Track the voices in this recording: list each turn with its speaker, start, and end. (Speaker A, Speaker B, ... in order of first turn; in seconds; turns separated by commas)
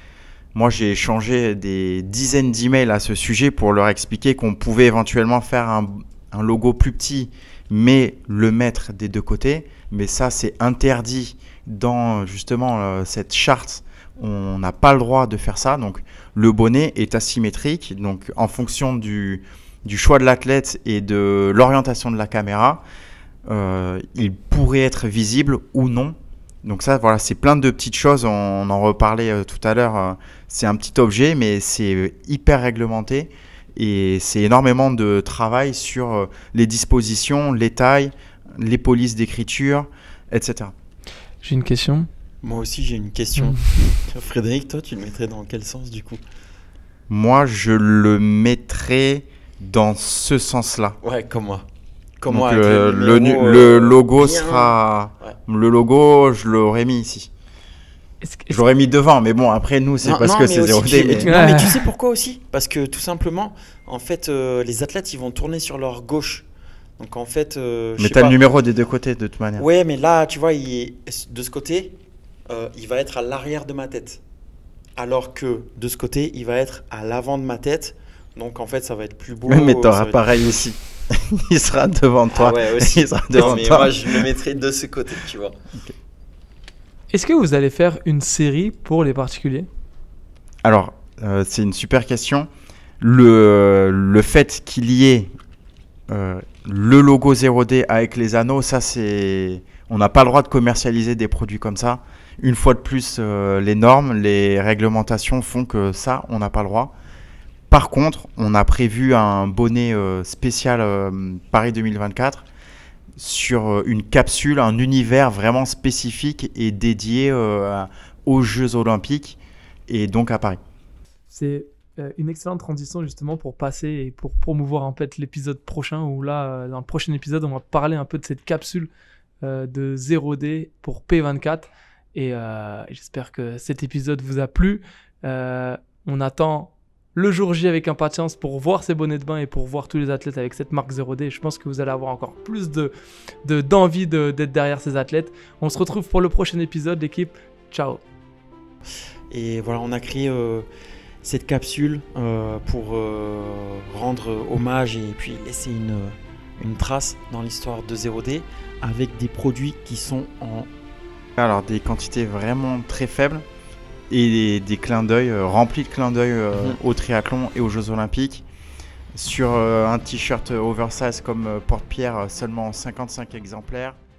Speaker A: 0.6-22.8, Speaker A: 23.5-40.7, Speaker B: 41.4-42.1, Speaker C: 42.4-46.2, Speaker B: 43.4-43.7, Speaker A: 47.1-51.0, Speaker C: 51.0-51.6, Speaker C: 52.2-55.3, Speaker A: 52.3-57.3, Speaker B: 58.2-58.6, Speaker A: 58.5-61.4, Speaker C: 60.0-66.5, Speaker B: 61.2-61.9, Speaker C: 67.0-68.4, Speaker A: 68.0-69.6, Speaker C: 69.6-72.0, Speaker C: 72.5-74.2, Speaker C: 75.0-80.6, Speaker A: 79.5-84.3, Speaker C: 82.3-85.6, Speaker B: 87.1-89.7, Speaker A: 90.6-92.5, Speaker A: 93.0-95.3, Speaker A: 96.1-106.9, Speaker A: 107.7-112.5, Speaker A: 113.2-120.6, Speaker B: 121.3-128.9, Speaker B: 129.4-142.9, Speaker B: 143.4-148.0, Speaker C: 149.3-150.7, Speaker C: 151.2-160.7, Speaker A: 161.4-163.4, Speaker A: 164.1-168.4, Speaker C: 166.5-166.8, Speaker A: 169.2-174.0